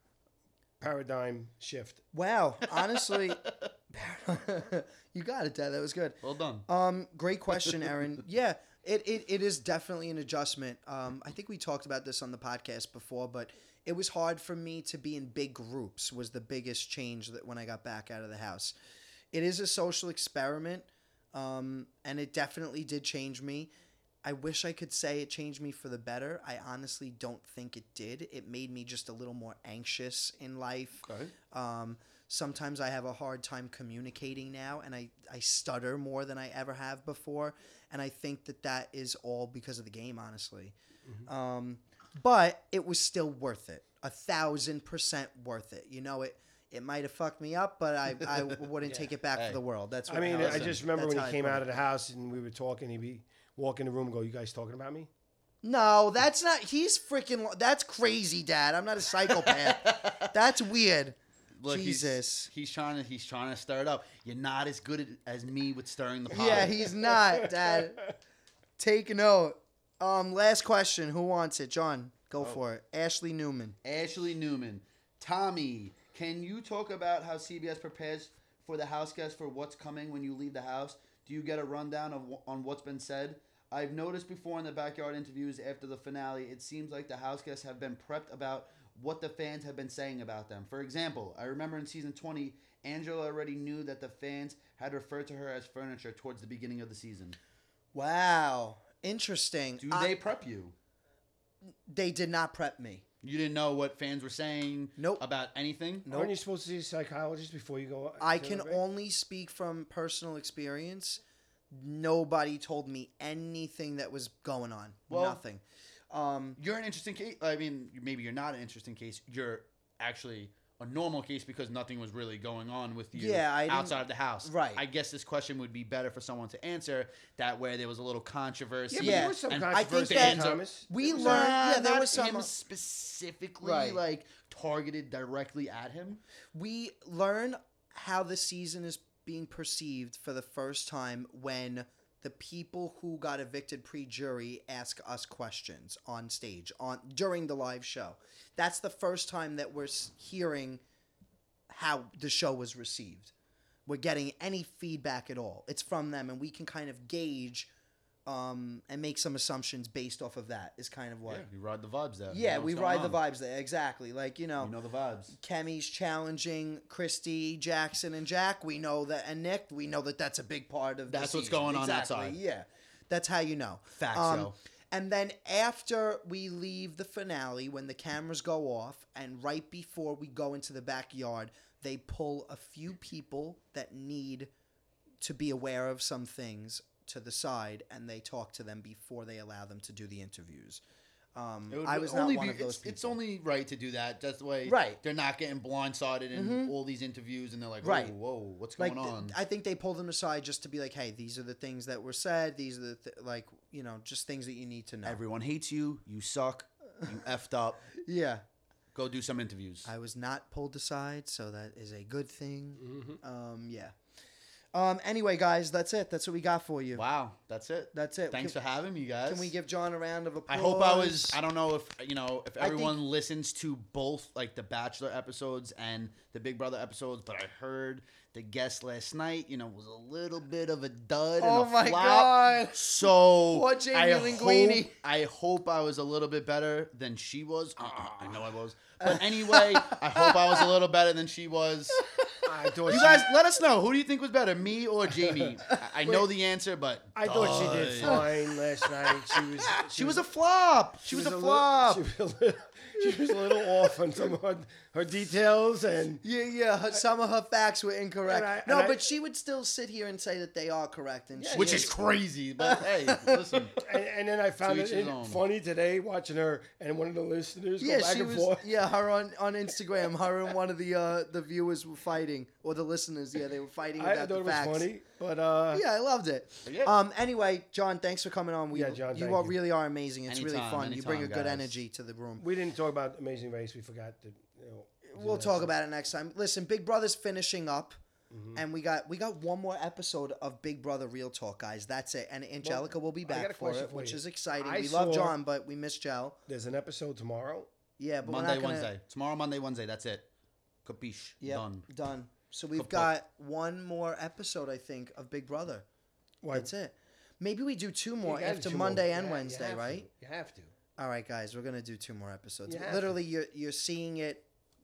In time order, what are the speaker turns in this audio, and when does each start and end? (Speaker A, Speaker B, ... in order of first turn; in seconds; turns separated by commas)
Speaker A: 0.8-2.0, Speaker B: 2.1-18.7, Speaker C: 2.9-3.7, Speaker C: 6.2-6.7, Speaker B: 19.3-23.7, Speaker B: 24.2-40.8, Speaker C: 31.0-31.3, Speaker B: 41.3-51.7, Speaker C: 48.3-48.5, Speaker A: 50.1-55.1, Speaker C: 50.3-50.8, Speaker B: 55.6-62.5, Speaker C: 59.2-60.3, Speaker C: 61.6-66.8, Speaker B: 66.3-68.1, Speaker A: 66.3-68.1, Speaker B: 68.8-73.8, Speaker C: 73.8-97.4, Speaker B: 97.9-100.1, Speaker C: 99.8-100.7, Speaker B: 101.9-103.0, Speaker C: 103.2-106.0, Speaker B: 105.0-105.2, Speaker B: 106.0-106.3, Speaker A: 106.1-108.8, Speaker B: 108.2-111.2, Speaker B: 111.7-116.6, Speaker C: 115.1-115.4, Speaker C: 116.6-136.2, Speaker B: 123.1-124.8, Speaker A: 128.9-131.5, Speaker B: 129.0-132.5, Speaker B: 133.6-134.0, Speaker B: 136.5-150.8, Speaker B: 151.7-153.3, Speaker B: 153.8-157.7, Speaker B: 158.2-161.5, Speaker C: 161.2-163.2, Speaker B: 162.3-164.7, Speaker C: 164.6-165.3, Speaker B: 165.3-184.5, Speaker C: 171.1-172.4, Speaker C: 173.9-174.5, Speaker B: 185.2-190.8, Speaker B: 191.3-193.2, Speaker C: 191.7-199.3, Speaker B: 194.7-195.0, Speaker B: 196.3-196.7, Speaker B: 197.8-198.1, Speaker B: 198.8-205.2, Speaker C: 205.0-207.8, Speaker B: 208.0-208.4, Speaker C: 208.9-209.9, Speaker B: 209.8-213.9, Speaker A: 212.8-213.2, Speaker B: 214.7-217.0, Speaker C: 216.9-219.5, Speaker B: 217.9-218.6, Speaker B: 219.2-221.4, Speaker C: 220.5-242.1, Speaker B: 222.6-223.0, Speaker B: 231.4-234.9, Speaker B: 239.0-240.7, Speaker A: 242.4-243.3, Speaker B: 242.9-243.3, Speaker C: 242.9-248.3, Speaker A: 245.2-245.5, Speaker B: 245.7-246.2, Speaker A: 247.1-250.3, Speaker B: 247.4-252.0, Speaker A: 251.0-256.2, Speaker B: 253.0-253.9, Speaker B: 256.2-261.9, Speaker A: 258.2-259.0, Speaker A: 261.4-261.9, Speaker C: 261.5-263.7, Speaker B: 262.6-263.6, Speaker A: 263.7-268.7, Speaker C: 264.6-265.4, Speaker B: 267.8-274.9, Speaker A: 274.0-275.8, Speaker B: 275.7-282.4, Speaker C: 276.6-276.9, Speaker A: 278.7-279.6, Speaker C: 280.3-281.7, Speaker A: 282.4-285.7, Speaker B: 285.1-288.0, Speaker A: 288.3-288.6, Speaker B: 288.5-296.4, Speaker A: 292.6-295.4, Speaker A: 296.5-297.7, Speaker B: 298.0-298.9, Speaker C: 298.2-300.3, Speaker C: 300.8-301.9, Speaker B: 301.4-305.8, Speaker C: 302.8-303.1, Speaker A: 306.4-306.7, Speaker B: 306.5-310.1, Speaker A: 308.2-310.7, Speaker B: 311.0-314.4, Speaker A: 312.7-313.1